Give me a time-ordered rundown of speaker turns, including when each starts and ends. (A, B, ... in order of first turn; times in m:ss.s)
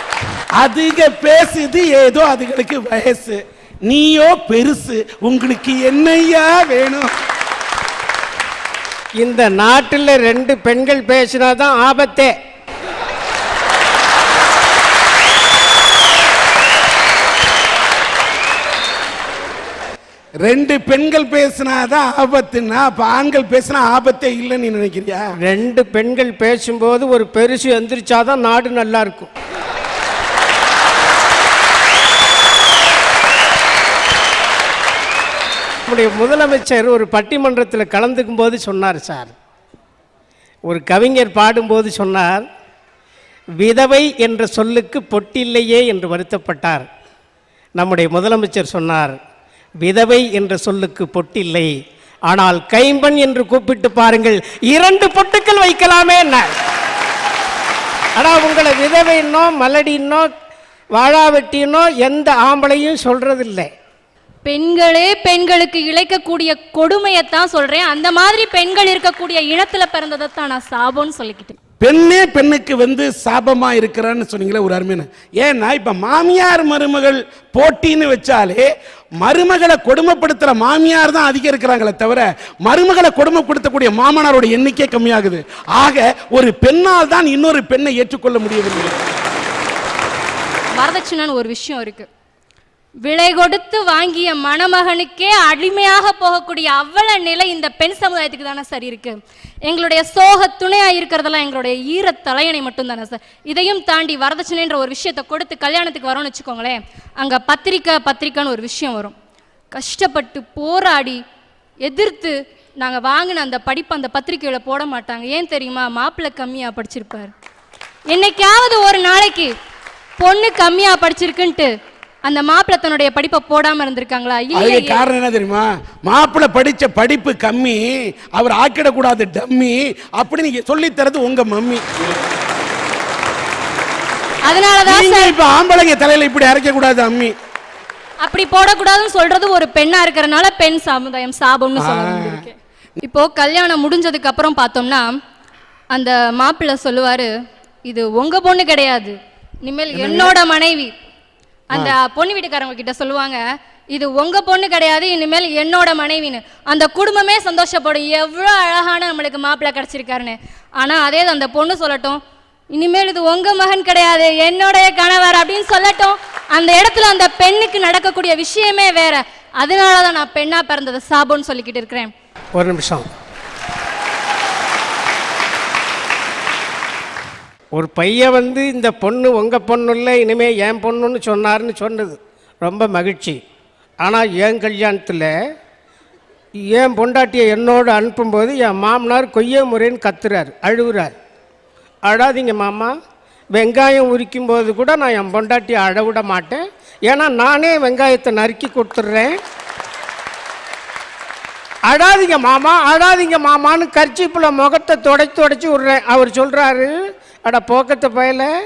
0:00.6-0:07.1 A
0:09.2-0:12.3 B
0:20.4-0:25.2 A
0:25.4-0:29.3 B
0:35.9-0:39.3 B
0:40.7-0:42.5 B
0:43.6-0:46.9 B
0:47.8-0:49.2 B
0:49.8-0:51.7 B
0:52.3-0:56.5 B
0:58.2-1:00.3 B
1:01.0-1:03.7 B
1:04.4-1:11.6 C
1:11.8-1:18.7 A
1:19.2-1:28.9 A
1:30.8-1:32.1 C
1:33.0-1:49.1 C
1:49.7-1:51.2 C
1:51.8-1:57.3 C
1:58.1-1:59.5 C
2:00.2-2:01.7 C
2:02.2-2:05.0 C
2:04.6-2:11.8 A
2:14.4-2:15.3 C
2:14.9-2:17.3 A
2:18.2-2:25.1 C
2:21.8-2:22.4 A
2:25.9-2:27.3 C
2:27.9-2:30.9 C
2:29.9-2:30.4 A
2:31.7-2:33.4 C
2:33.9-2:42.2 C
2:42.7-2:52.1 C
2:52.6-2:53.1 B
2:57.8-3:03.4 B
3:04.0-3:05.3 B
3:06.7-3:11.1 B
3:12.1-3:12.9 B
3:13.5-3:19.4 B
3:21.9-3:28.5 B